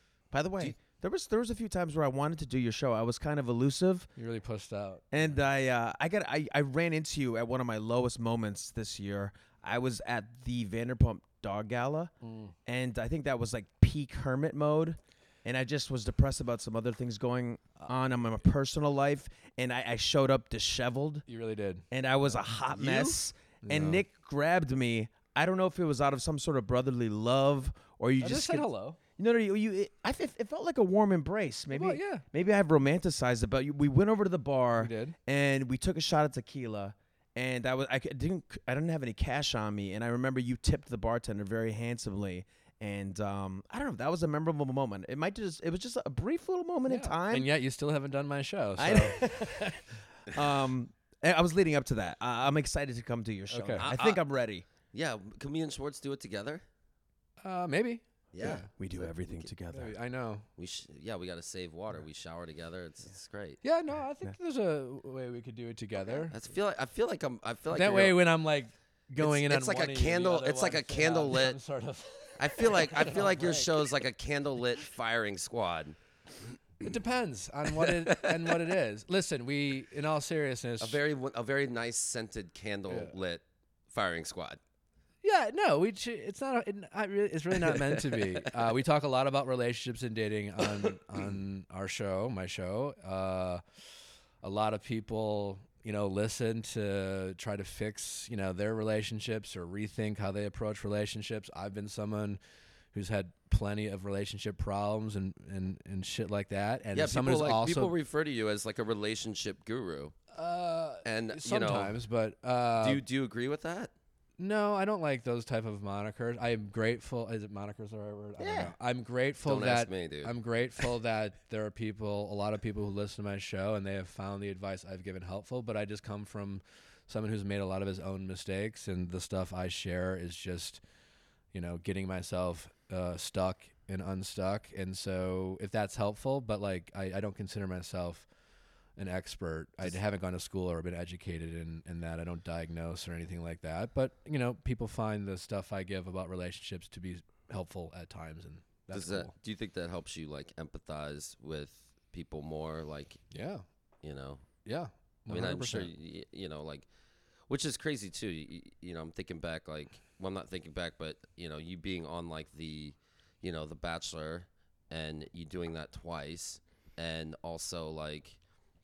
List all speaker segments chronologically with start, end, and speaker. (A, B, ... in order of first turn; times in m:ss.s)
0:00.3-0:04.1 A
0:04.2-0:05.3 B
0:05.1-0:12.1 A
0:12.2-0:12.5 B
0:12.6-0:21.2 A
0:21.3-0:21.8 B
0:21.9-0:47.5 A
0:22.7-0:23.2 C
0:23.6-0:24.0 B
0:28.2-0:29.0 B
0:31.7-0:32.2 B
0:34.8-0:35.2 B
0:46.8-0:49.8 B
0:48.8-0:54.6 A
0:53.5-0:53.9 B
0:53.8-0:54.2 C
0:54.9-0:56.6 C
0:57.4-0:58.7 B
0:58.3-0:59.5 C
0:58.4-0:59.9 A
0:59.7-1:00.4 B
1:00.6-1:03.6 C
1:03.6-1:06.4 B
1:06.3-1:08.2 C
1:07.7-1:13.8 B
1:09.2-1:11.6 C
1:12.4-1:16.0 C
1:16.8-1:21.0 B
1:17.8-1:18.5 C
1:20.8-1:24.6 C
1:22.9-1:23.1 B
1:25.2-1:33.6 B
1:27.6-1:28.4 C
1:34.4-1:42.4 B
1:42.9-1:47.9 B
1:46.9-1:50.1 C
1:50.3-1:53.0 B
1:51.0-1:52.0 C
1:52.8-1:53.9 C
1:54.4-2:10.8 B
1:58.4-1:58.7 A
1:59.4-2:00.3 C
2:11.5-2:18.3 B
2:19.0-2:29.3 B
2:28.9-2:33.2 C
2:33.3-2:33.6 B
2:34.0-2:34.4 C
2:34.6-2:35.9 B
2:35.3-2:36.8 C
2:37.5-2:48.4 C